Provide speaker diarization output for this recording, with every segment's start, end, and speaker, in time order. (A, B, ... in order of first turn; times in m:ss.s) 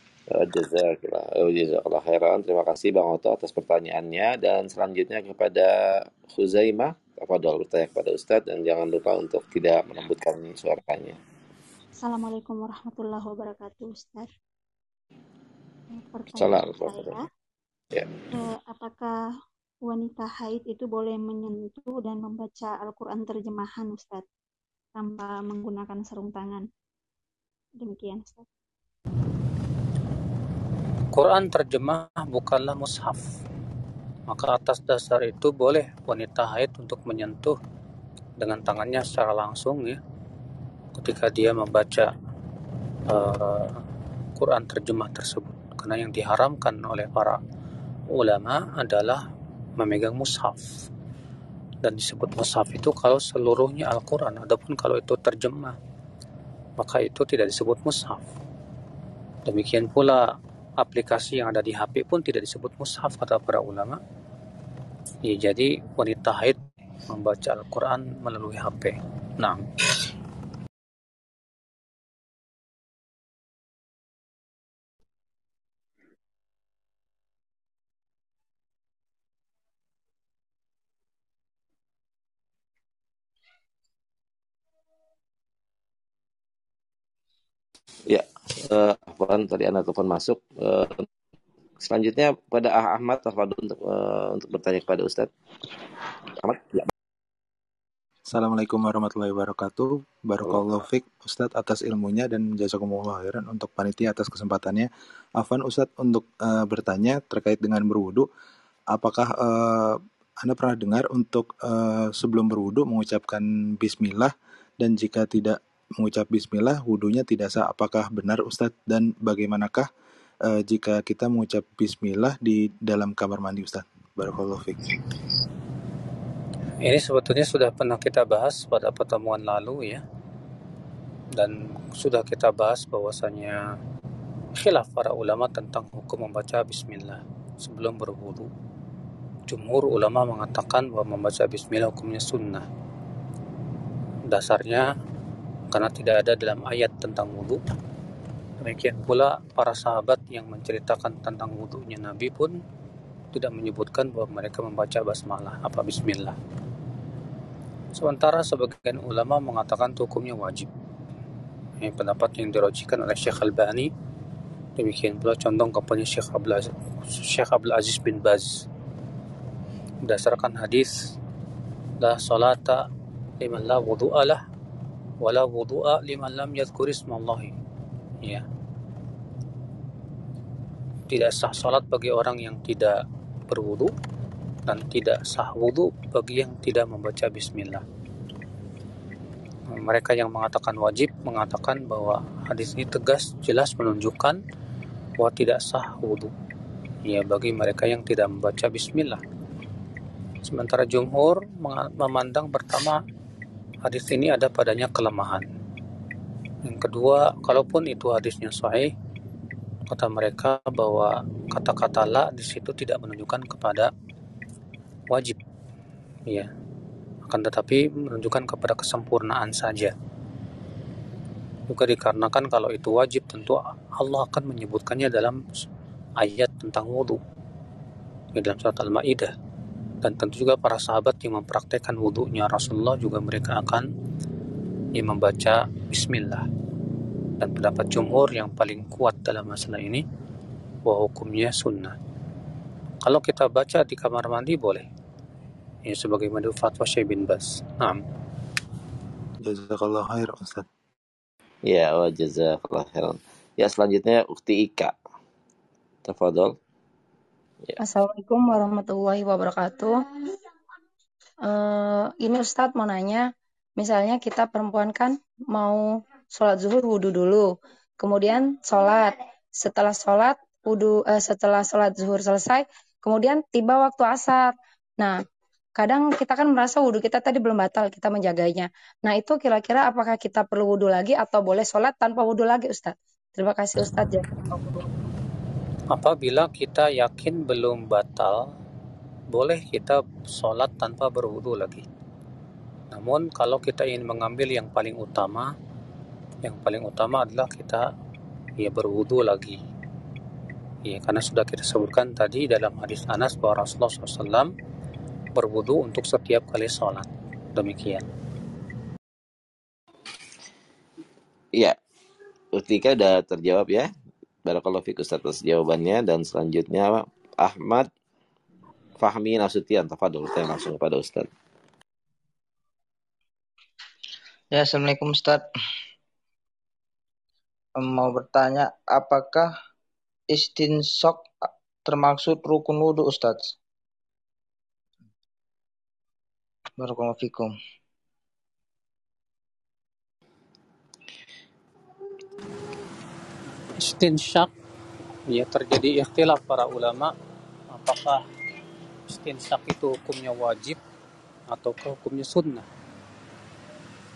0:00.3-0:11.2 A
0:12.0-0:14.3 B
0:16.0-0:17.3 B
0:16.3-0:17.2 A
0:18.3-0:19.1 B
0:19.8-0:24.2 B
0:25.0-0:26.6 B
0:27.8-0:28.5 B
0:31.1-0:33.3 C
0:34.3-0:37.6 C
0:38.4-0:40.0 C
0:41.0-0:42.1 C
0:43.1-0:43.8 C
0:44.4-0:47.4 C
0:48.1-0:49.2 C
0:49.8-0:50.8 C
0:51.8-0:55.8 C
0:56.8-0:58.2 C
0:59.4-1:00.3 C
1:00.8-1:04.0 C
1:05.2-1:09.6 C
1:28.1-1:31.1 A
1:31.8-1:35.3 A
1:36.4-1:36.9 A
1:38.3-1:48.3 D
1:48.9-1:59.9 D
2:00.5-2:04.9 D
2:06.8-2:10.0 C
2:11.3-2:13.7 C
2:14.6-2:18.5 C
2:19.5-2:22.6 C
2:24.3-2:24.9 C
2:25.7-2:27.6 C
2:28.6-2:32.6 C
2:33.3-2:36.4 C
2:38.0-2:40.7 C
2:41.8-2:43.9 C
2:44.8-2:48.6 C
2:50.0-2:51.1 C
2:52.0-2:52.8 C
2:53.4-2:54.4 C
2:55.2-2:57.6 C
3:01.1-3:03.0 C
3:03.5-3:03.9 C
3:04.7-3:07.8 C
3:09.7-3:14.4 C
3:15.2-3:16.3 C
3:17.0-3:19.2 C
3:20.4-3:23.0 C
3:23.8-3:25.4 C
3:26.6-3:28.9 C
3:29.9-3:33.9 C
3:35.1-3:35.4 C
3:37.3-3:39.9 C
3:41.7-3:45.4 C
3:46.2-3:47.2 C
3:48.4-3:49.3 C
3:50.0-3:53.9 C
3:55.0-3:56.5 C
3:57.4-4:00.0 C
4:00.9-4:02.0 C
4:03.0-4:04.8 C
4:05.9-4:08.0 C
4:09.4-4:10.6 D
4:11.6-4:14.9 A
4:16.0-4:16.6 A
4:17.8-4:20.0 E
4:21.4-4:35.2 E
4:35.8-4:44.8 E
4:45.9-4:48.5 C
4:49.3-4:51.8 C
4:52.9-4:55.5 C
4:56.4-4:57.8 C
4:58.6-4:59.6 C
5:00.9-5:04.5 C
5:05.4-5:08.1 C
5:12.6-5:13.9 A
5:14.5-5:17.9 A
5:19.0-5:21.3 A
5:24.5-5:25.4 F
5:27.8-5:29.5 F
5:30.3-5:33.5 F
5:36.8-5:37.5 F
5:43.8-5:44.5 C
5:45.3-5:47.1 C
5:47.7-5:48.2 C
5:49.1-5:50.8 C
5:51.5-5:52.6 C